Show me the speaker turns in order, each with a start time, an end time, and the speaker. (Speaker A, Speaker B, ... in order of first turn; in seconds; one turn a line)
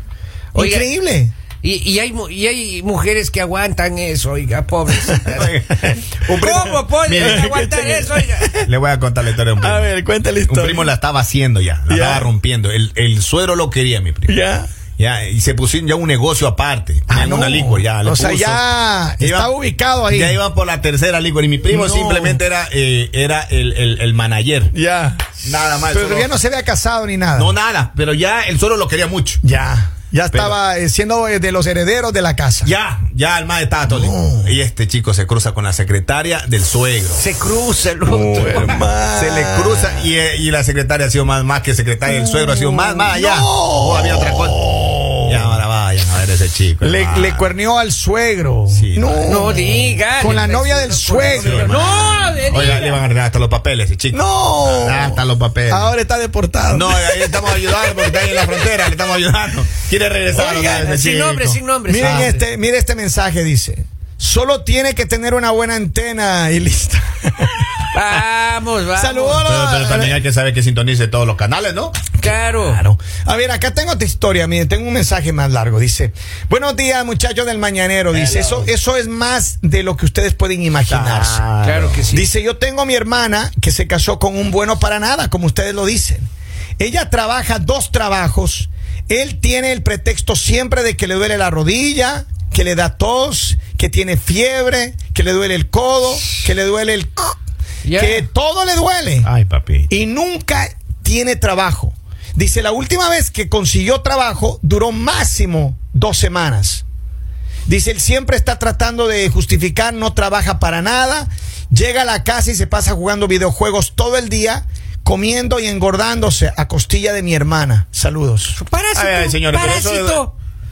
Speaker A: 0.5-1.3
Speaker B: 0.5-0.9
Speaker B: 1.6-5.5
Speaker C: 5.2-7.5
Speaker B: 6.3-8.5
Speaker A: 7.2-8.7
Speaker C: 8.6-9.9
Speaker A: 9.6-10.9
Speaker C: 10.5-14.4
Speaker A: 11.9-12.3
Speaker A: 14.3-14.7
Speaker C: 15.0-18.6
Speaker A: 17.1-20.4
Speaker C: 19.2-19.5
Speaker C: 20.1-24.7
Speaker A: 21.7-22.4
Speaker A: 24.7-27.5
Speaker C: 25.4-26.3
Speaker C: 27.3-29.4
Speaker A: 29.4-32.7
Speaker C: 30.3-30.6
Speaker C: 32.6-37.2
Speaker A: 33.9-34.5
Speaker B: 37.1-38.8
Speaker A: 38.1-40.1
Speaker C: 38.3-44.6
Speaker A: 42.0-45.6
Speaker C: 45.2-47.5
Speaker A: 46.8-52.4
Speaker C: 48.7-49.4
Speaker B: 49.2-53.0
Speaker C: 51.4-55.9
Speaker A: 54.1-58.7
Speaker C: 56.7-62.3
Speaker A: 60.3-60.8
Speaker B: 60.4-62.4
Speaker A: 61.9-67.8
Speaker B: 67.9-69.5
Speaker A: 69.0-70.2
Speaker C: 69.5-72.0
Speaker A: 72.2-81.4
Speaker B: 72.2-72.8
Speaker C: 78.1-78.7
Speaker C: 80.8-82.0
Speaker B: 81.6-82.3
Speaker A: 82.1-86.3
Speaker A: 86.8-97.4
Speaker B: 97.8-98.2
Speaker A: 97.9-99.3
Speaker C: 99.2-99.9
Speaker A: 99.9-106.8
Speaker A: 107.7-118.6
Speaker B: 118.5-120.3
Speaker C: 118.9-120.2